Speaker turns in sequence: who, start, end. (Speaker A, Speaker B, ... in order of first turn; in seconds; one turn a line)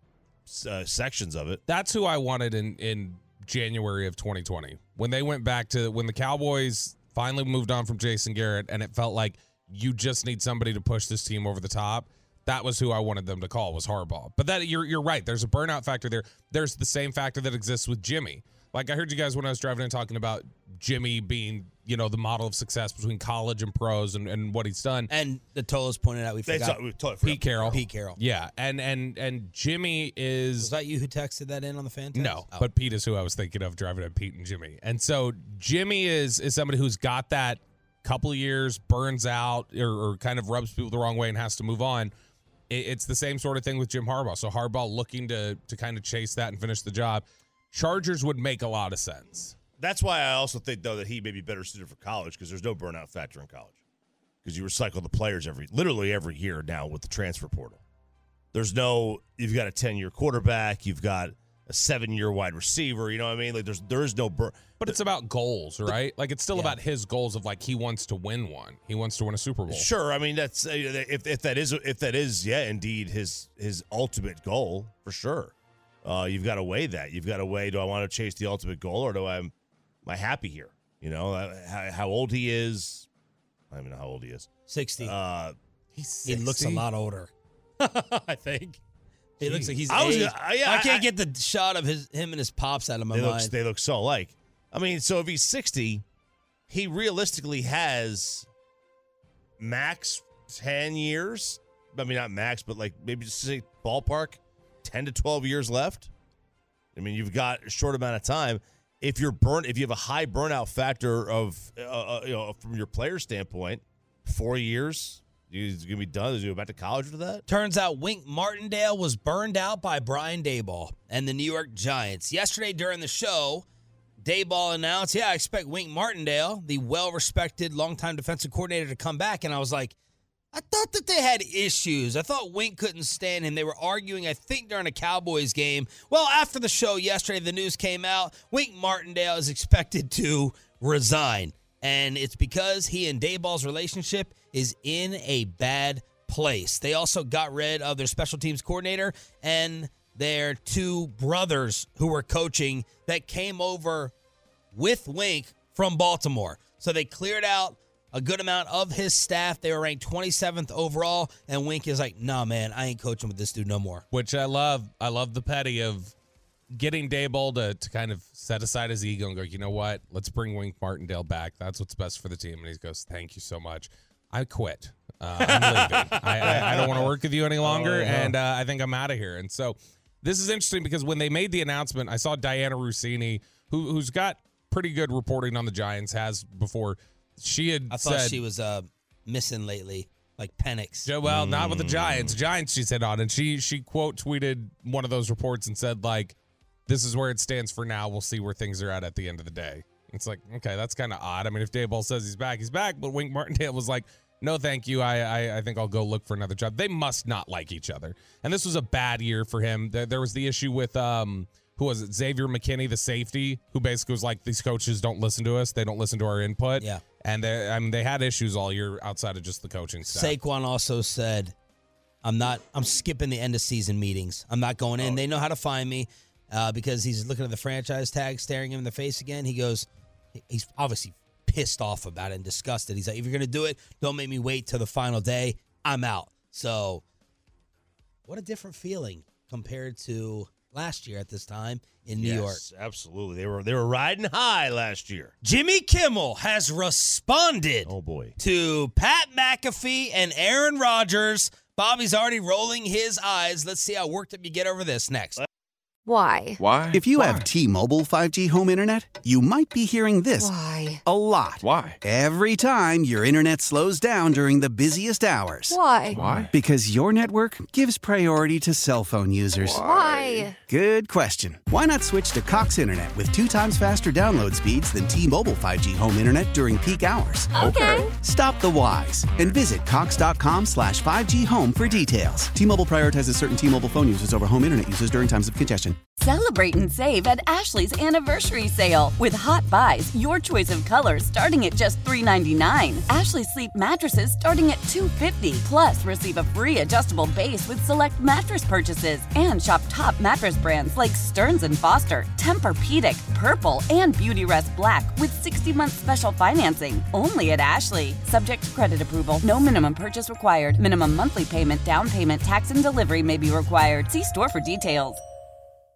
Speaker A: 0.5-1.6
Speaker B: 1.7-25.1
Speaker C: 25.1-26.8
Speaker A: 26.5-27.8
Speaker B: 27.2-30.7
Speaker C: 27.7-28.2
Speaker C: 30.6-32.7
Speaker B: 32.1-42.1
Speaker B: 42.7-49.5
Speaker A: 49.8-53.8
Speaker A: 54.4-57.8
Speaker A: 58.5-65.0
Speaker B: 64.8-69.9
Speaker C: 66.5-66.8
Speaker A: 69.7-75.5
Speaker A: 76.0-79.5
Speaker A: 80.0-83.1
Speaker A: 83.7-85.5
Speaker C: 84.7-85.1
Speaker B: 86.0-86.8
Speaker C: 86.3-88.8
Speaker C: 89.4-93.5
Speaker B: 89.4-89.7
Speaker A: 89.9-91.1
Speaker A: 93.1-96.0
Speaker A: 96.7-98.5
Speaker A: 99.6-106.1
Speaker A: 107.0-117.4
Speaker C: 117.5-123.7
Speaker C: 124.2-129.9
Speaker C: 130.5-154.1
Speaker C: 154.7-164.1
Speaker B: 164.1-166.1
Speaker B: 166.7-188.4
Speaker C: 176.4-177.0
Speaker A: 176.4-177.1
Speaker C: 177.6-178.3
Speaker C: 187.9-191.1
Speaker B: 191.1-196.3
Speaker A: 191.2-192.4
Speaker B: 196.9-220.4
Speaker C: 216.8-217.0
Speaker C: 220.0-221.5
Speaker C: 222.2-229.9
Speaker C: 230.4-237.0
Speaker C: 238.3-242.6
Speaker A: 242.1-245.3
Speaker C: 245.4-255.4
Speaker A: 247.9-248.3
Speaker D: 256.1-256.6
Speaker E: 256.6-257.5
Speaker F: 256.9-269.9
Speaker D: 260.4-261.0
Speaker E: 261.6-262.0
Speaker D: 265.7-266.2
Speaker E: 266.1-266.5
Speaker E: 269.6-270.5
Speaker D: 269.8-270.6
Speaker F: 270.6-286.0
Speaker D: 277.6-278.1
Speaker E: 277.6-278.0
Speaker G: 286.2-315.2